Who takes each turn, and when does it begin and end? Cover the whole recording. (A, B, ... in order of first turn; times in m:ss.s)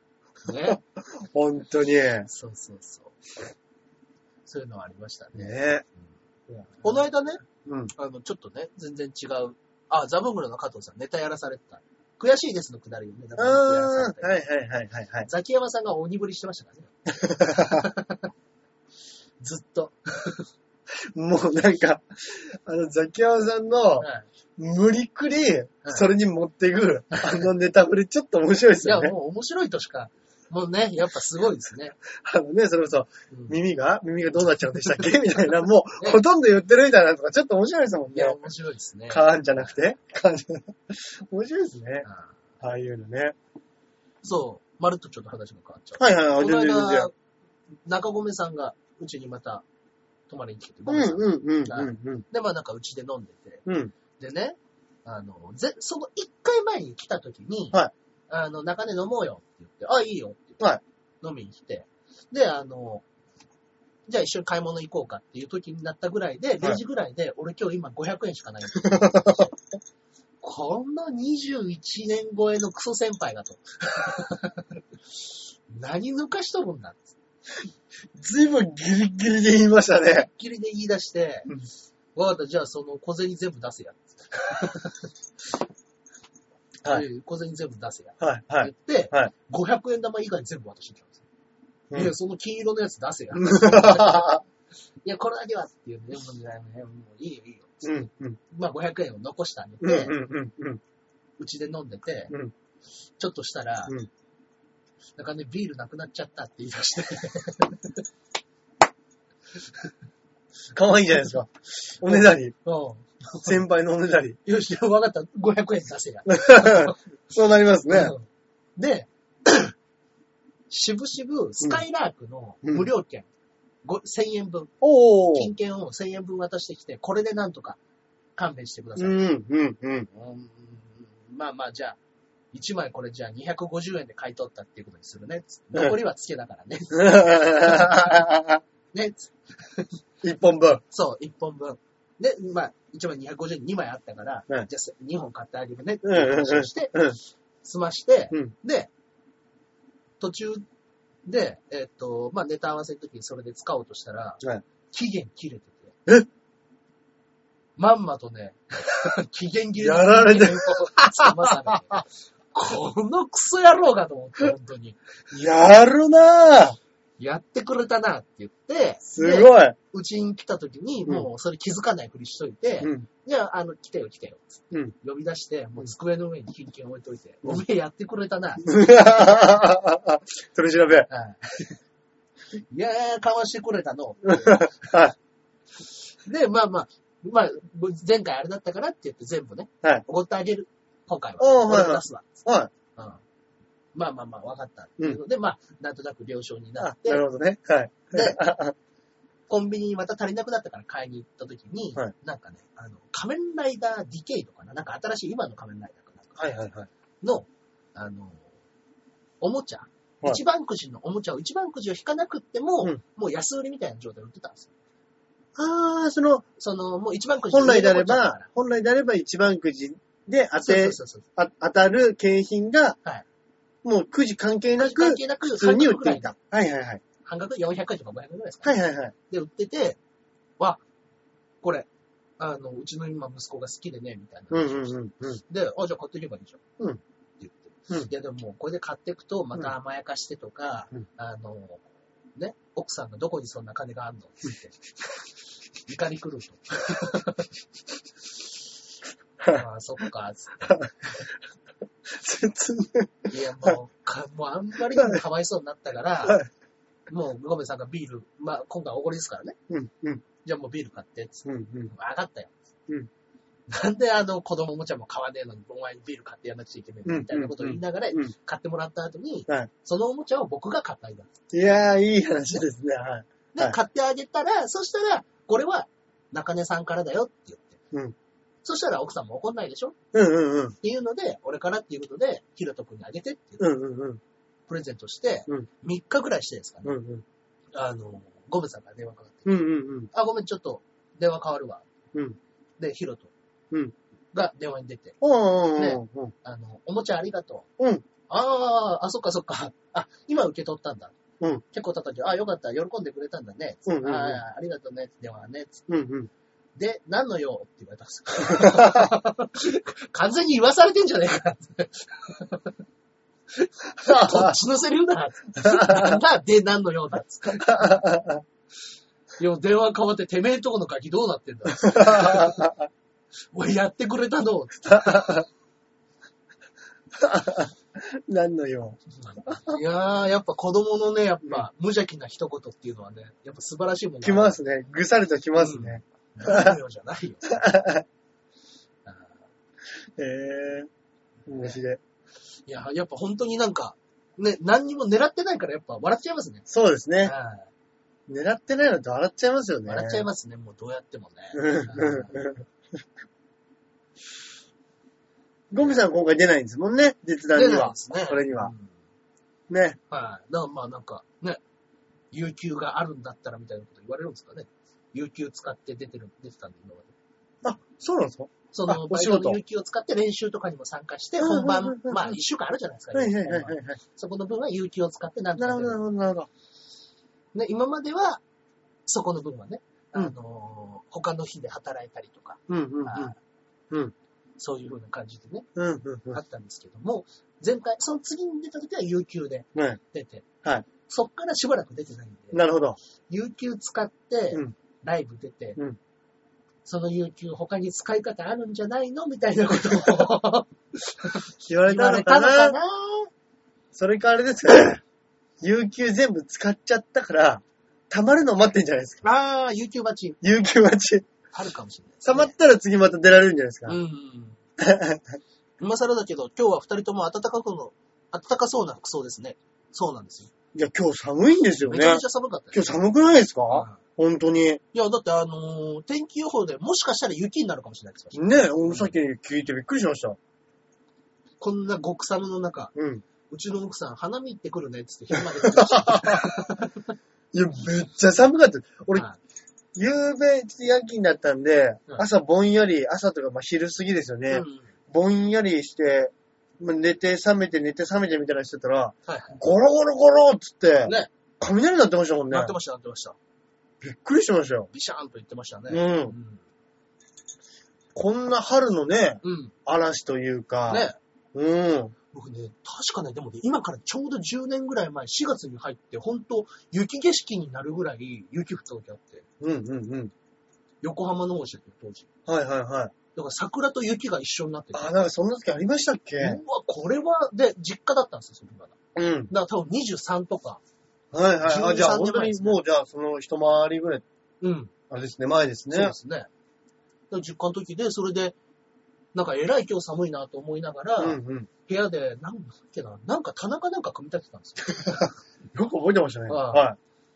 0:00.4-0:00.8 A
0:00.7-0:02.3 B
0:02.3-0:03.2 A
0:04.5-0:05.6 A
0:05.3-0:05.8 B
0:06.5-0:06.9 B
0:06.8-0:07.4 A
0:07.6-0:07.9 B
0:08.0-0:14.4 A
0:13.4-0:15.3 B
0:15.2-0:18.3 A
0:17.1-0:17.9 B
0:19.4-0:20.4 A
0:20.9-0:29.2 B
0:24.0-0:24.3 A
0:27.1-0:27.5 A
0:28.8-0:32.0 A
0:32.1-0:38.4 B
0:33.3-0:33.6 A
0:34.7-0:36.2 A
0:38.1-0:39.8 A
0:39.1-0:42.1 B
0:42.1-0:42.3 A
0:42.6-0:43.4 B
0:44.2-0:47.1 A
0:46.0-0:47.1 B
0:47.9-0:49.6 A
0:50.3-0:53.6 A
0:50.9-0:52.2 B
0:53.7-0:53.9 B
0:54.2-1:00.6 A
1:01.2-1:03.0 A
1:04.1-1:09.5 A
1:08.8-1:09.4 B
1:10.4-1:14.7 A
1:15.7-1:17.1 A
1:18.2-1:20.3 B
1:20.3-1:21.5 A
1:22.2-1:25.1 A
1:26.9-1:31.2 A
1:28.2-1:29.3 B
1:31.9-1:34.4 A
1:33.4-1:34.4 B
1:35.0-1:40.2 A
1:37.8-1:38.4 B
1:39.8-1:40.8 B
1:41.4-1:42.3 A
1:43.2-1:43.9 A
1:45.2-1:48.0 A
1:50.7-1:52.6 B
1:52.1-1:53.6 A
1:53.4-1:54.4 B
1:54.4-1:57.0 A
1:56.3-1:58.1 B
1:57.9-1:58.2 A
1:58.8-1:59.7 A
2:00.7-2:03.3 A
2:03.8-2:04.7 A
2:04.8-2:05.5 B
2:05.3-2:07.8 A
2:08.4-2:09.2 A
2:09.0-2:10.1 B
2:10.1-2:12.0 A
2:12.5-2:18.2 A
2:16.9-2:18.6 B
2:18.9-2:19.9 A
2:20.2-2:20.8 B
2:20.9-2:27.0 A
2:26.0-2:27.2 B
2:27.6-2:28.9 A
2:30.2-2:30.6 A
2:31.3-2:35.9 A
2:37.8-2:45.0 A
2:39.8-2:42.0 B
2:45.3-2:46.8 B
2:47.2-2:58.7 A
2:49.1-2:49.8 B
2:52.8-2:53.1 B
2:58.6-3:01.1 B
3:01.1-3:01.8 A
3:02.7-3:04.9 A
3:04.2-3:05.2 B
3:06.2-3:12.4 A
3:11.4-3:12.7 B
3:13.0-3:13.2 A
3:13.9-3:17.2 A
3:16.8-3:18.8 B
3:18.1-3:18.4 A
3:19.5-3:26.7 A
3:26.4-3:26.9 B
3:27.2-3:28.5 A
3:29.4-3:34.7 A
3:35.6-3:36.4 B
3:36.6-3:38.5 A
3:37.5-3:43.0 B
3:40.6-3:41.2 A
3:43.8-3:47.0 B
3:44.8-3:46.3 A
3:47.2-3:48.8 A
3:48.6-3:49.1 B
3:49.3-3:50.0 A
3:51.6-3:51.9 A
3:52.4-3:56.6 A
3:54.5-3:55.4 B
3:57.4-4:01.8 A
4:02.4-4:04.8 A
4:05.9-4:07.5 A
4:09.5-4:10.8 A
4:12.1-4:13.8 B
4:13.3-4:16.4 A
4:17.1-4:19.6 A
4:19.7-4:20.2 B
4:20.4-4:22.5 A
4:21.5-4:21.9 B
4:23.7-4:31.3 A
4:27.1-4:28.3 B
4:31.5-4:33.8 B
4:33.5-4:37.8 A
4:38.6-4:40.0 A
4:40.1-4:40.8 B
4:40.8-4:43.6 A
4:43.6-4:44.2 B
4:44.7-4:47.0 A
4:46.8-4:47.2 B
4:47.7-4:51.9 A
4:49.5-4:50.1 B
4:52.8-4:53.3 A
4:54.3-4:55.2 A
4:55.2-4:56.3 B
4:55.8-4:57.7 A
4:57.8-4:58.0 B
4:58.3-5:01.2 A
5:01.7-5:05.9 A
5:03.9-5:04.4 B
5:05.9-5:06.3 B
5:06.8-5:12.7 A
5:08.5-5:09.2 B
5:13.5-5:18.0 A
5:14.0-5:14.6 B
5:15.6-5:16.2 B
5:17.5-5:18.4 B
5:19.4-5:22.7 A
5:21.8-5:22.9 B
5:23.5-5:25.5 A
5:24.9-5:25.5 B
5:27.2-5:29.8 B
5:29.2-5:34.6 A
5:34.2-5:36.8 B
5:35.6-5:37.6 A
5:37.5-5:38.0 B
5:39.1-5:39.3 A
5:40.2-5:40.9 B
5:41.5-5:41.8 A
5:41.5-5:42.0 B
5:42.7-5:46.7 A
5:46.7-5:47.3 B
5:47.2-5:47.7 A
5:48.3-5:50.3 B
5:49.9-5:52.4 A
5:51.5-5:52.7 B
5:55.7-5:58.7 B
5:57.5-5:58.9 A
5:59.7-6:00.0 B
6:00.1-6:01.6 A
6:02.3-6:07.1 A
6:07.6-6:09.6 B
6:08.7-6:16.0 A
6:11.4-6:12.4 B
6:13.1-6:14.0 B
6:15.6-6:16.5 B
6:17.5-6:18.4 A
6:19.1-6:23.4 A
6:22.7-6:23.3 B
6:24.6-6:25.7 A
6:25.8-6:26.4 B
6:26.3-6:30.5 A
6:31.1-6:32.6 A
6:32.5-6:33.0 B
6:33.3-6:35.8 A
6:36.9-6:43.3 A
6:41.6-6:42.8 B
6:43.9-6:45.0 B
6:45.6-6:49.2 B
6:49.2-6:50.4 A
6:50.4-6:51.3 B
6:51.5-6:52.5 A
6:52.2-6:54.0 B
6:53.9-6:54.6 A
6:54.8-6:55.4 B
6:55.8-7:00.5 A
7:00.7-7:04.8 B
7:01.8-7:03.0 A
7:03.7-7:04.0 A
7:04.9-7:09.1 A
7:08.3-7:10.4 B
7:11.6-7:12.9 A
7:13.0-7:13.2 B
7:13.5-7:17.1 A
7:15.5-7:16.7 B
7:17.5-7:19.2 B
7:20.0-7:32.7 B
7:24.5-7:24.9 A
7:29.3-7:29.6 A
7:32.5-7:33.4 A
7:34.0-7:34.9 B
7:34.9-7:36.6 A
7:35.9-7:36.4 B
7:38.1-7:42.2 B
7:39.4-7:39.7 A
7:40.9-7:41.2 A
7:42.3-7:49.5 A
7:49.6-7:50.3 B
7:51.0-7:52.3 A
7:52.5-7:53.1 B
7:53.4-7:55.1 A
7:54.9-7:56.6 B
7:56.4-7:59.0 A
7:59.2-7:59.5 B
7:59.5-8:00.8 A
8:01.3-8:04.2 B
8:01.6-8:02.8 A
8:04.6-8:04.9 A
8:05.1-8:06.2 B
8:05.9-8:06.5 A
8:07.3-8:08.6 A
8:09.3-8:15.3 A
8:11.2-8:11.7 B
8:15.7-8:17.0 B
8:16.5-8:16.8 A